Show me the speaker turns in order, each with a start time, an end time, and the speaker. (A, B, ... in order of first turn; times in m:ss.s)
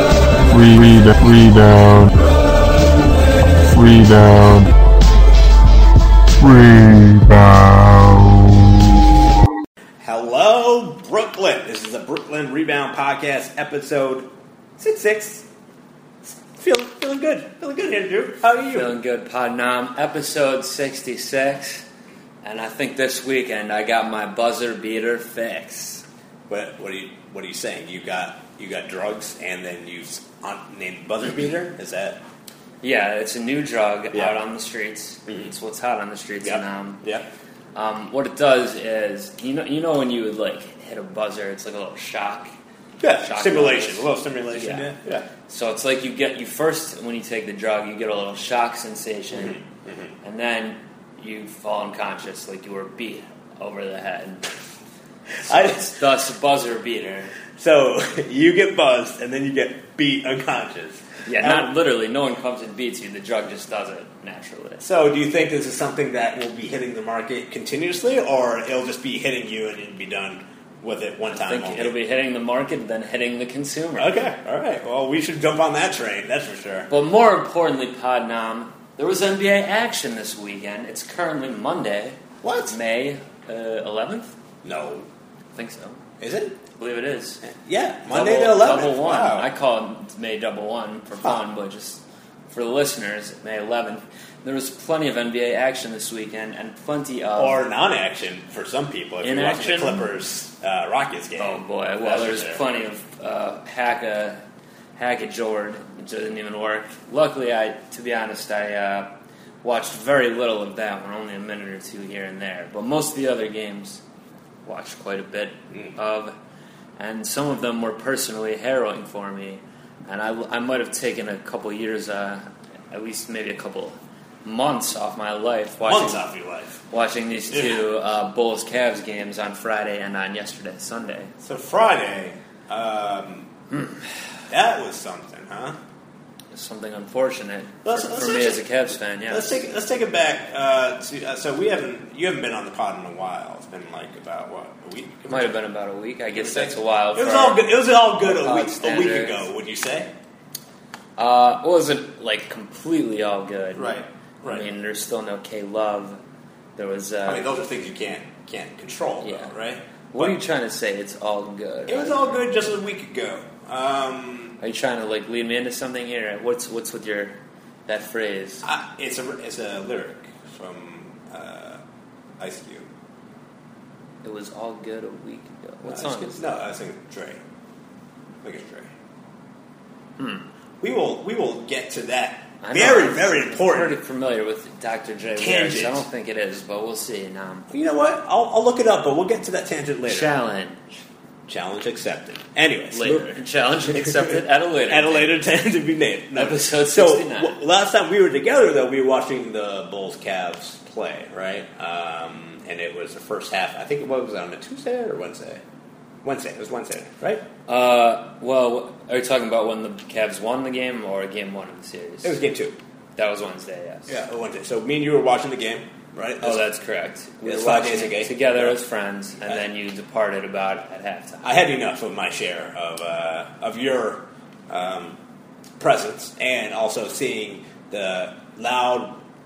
0:00.5-0:02.2 A
0:03.7-0:04.7 A
0:06.4-0:08.7 A
0:10.0-0:15.4 B
0:16.3-0:18.9 B
0:18.7-0:21.8 C
0:22.4-0:26.0 C
0:26.5-0:32.2 B
0:32.8-0:37.0 C
0:36.4-0:37.2 B
0:37.7-0:42.5 C
0:43.0-0:45.3 B
0:43.2-0:44.9 C
0:45.5-0:49.6 C
0:49.4-0:50.0 B
0:50.2-0:54.5 C
0:55.4-0:57.3 C
0:55.4-0:55.8 B
0:57.6-1:01.7 B
1:01.2-1:04.8 C
1:04.8-1:11.9 B
1:11.4-1:14.1 C
1:14.0-1:16.9 B
1:16.9-1:24.3 C
1:22.4-1:22.8 B
1:24.6-1:25.1 B
1:25.6-1:26.0 C
1:26.2-1:26.6 B
1:26.7-1:27.4 C
1:27.4-1:29.5 B
1:28.1-1:37.6 C
1:37.4-1:42.6 B
1:39.2-1:40.1 C
1:41.4-1:44.4 C
1:45.0-1:54.0 C
1:54.6-1:56.3 C
1:57.0-2:06.3 C
2:05.9-2:06.8 B
2:06.9-2:11.3 C
2:07.5-2:07.8 B
2:11.4-2:13.5 B
2:14.5-2:15.8 B
2:16.5-2:19.6 C
2:17.8-2:18.6 B
2:19.3-2:25.5 B
2:25.3-2:29.4 C
2:26.4-2:30.1 B
2:31.2-2:36.2 C
2:33.7-2:34.6 B
2:36.8-2:37.5 C
2:37.2-2:40.3 B
2:39.2-2:39.5 C
2:40.1-2:42.4 C
2:41.9-2:44.6 B
2:44.6-2:47.4 C
2:47.9-2:48.6 C
2:48.6-2:51.8 B
2:52.4-2:52.9 B
2:54.2-2:56.5 C
2:55.9-2:57.4 B
2:58.4-2:58.9 B
3:00.2-3:00.4 C
3:00.8-3:04.0 B
3:02.6-3:07.7 C
3:05.4-3:06.0 B
3:07.7-3:10.4 B
3:10.0-3:10.8 C
3:11.5-3:13.3 B
3:12.9-3:15.4 C
3:13.9-3:14.4 B
3:14.9-3:25.6 B
3:16.4-3:17.6 C
3:26.2-3:27.4 B
3:27.7-3:32.4 C
3:32.2-3:32.8 B
3:33.2-3:34.2 C
3:34.1-3:36.6 B
3:36.4-3:41.5 C
3:37.4-3:38.8 B
3:41.4-3:45.2 B
3:45.8-3:49.2 B